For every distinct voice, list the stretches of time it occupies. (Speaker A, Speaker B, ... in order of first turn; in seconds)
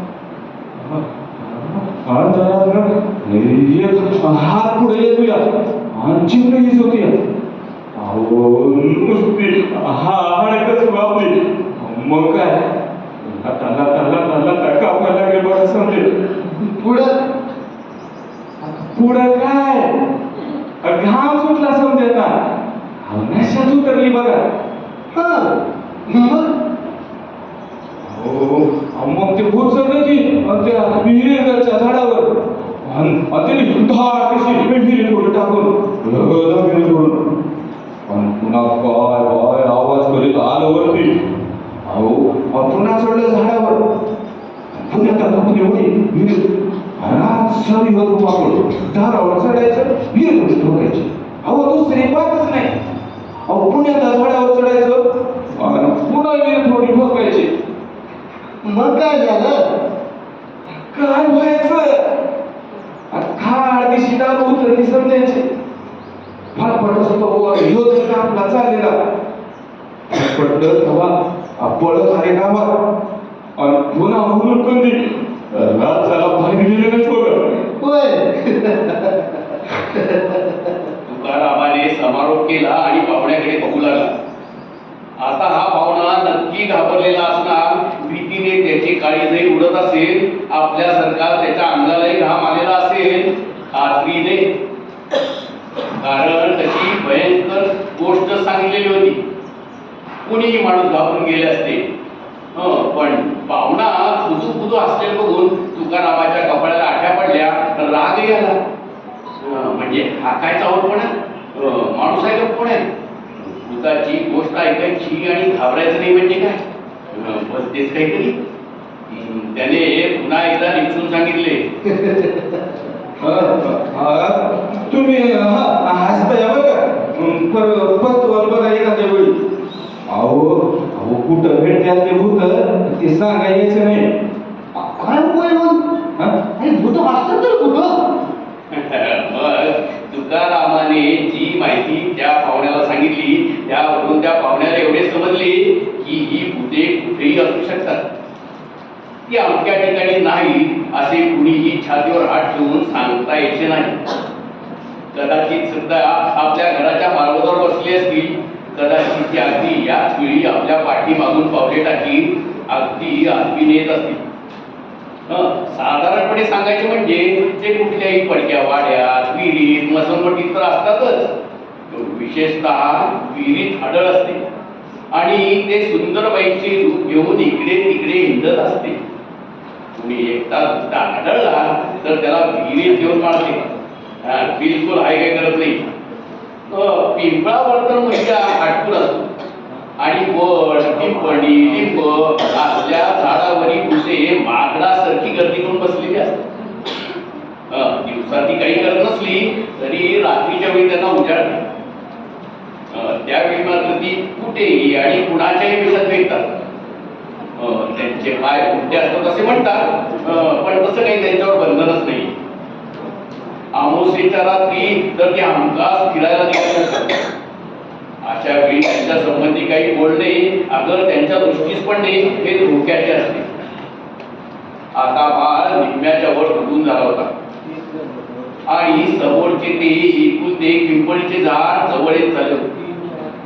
Speaker A: 0.7-7.1, 7.9-16.1, 18.6-19.9, 20.8-22.3, 23.0-24.4, 28.0-37.4, 38.0-41.2, 41.8-43.9, 44.7-52.7, 53.5-57.5, 60.9-62.0, 63.1-65.4, 66.5-68.9, 70.1-72.7, 73.6-77.5, 123.2-129.4, 130.1-134.0
Speaker B: 16.6-17.1, 25.1-26.5, 58.6-59.5, 77.8-80.7, 121.9-122.5, 134.7-135.8, 136.6-138.0
Speaker C: 81.0-84.1, 85.2-94.5, 96.0-99.2, 100.2-101.8, 102.5-108.5, 109.4-112.8, 113.4-118.3, 119.1-121.6, 138.7-148.0, 149.3-154.0, 155.1-164.2, 165.3-171.3, 171.9-174.4, 175.1-179.0, 179.9-183.7, 184.2-185.8, 186.7-189.3, 190.0-196.4, 197.7-201.6, 202.9-206.4, 207.6-212.3, 213.7-217.2, 218.2-223.5, 224.9-227.3, 228.7-232.7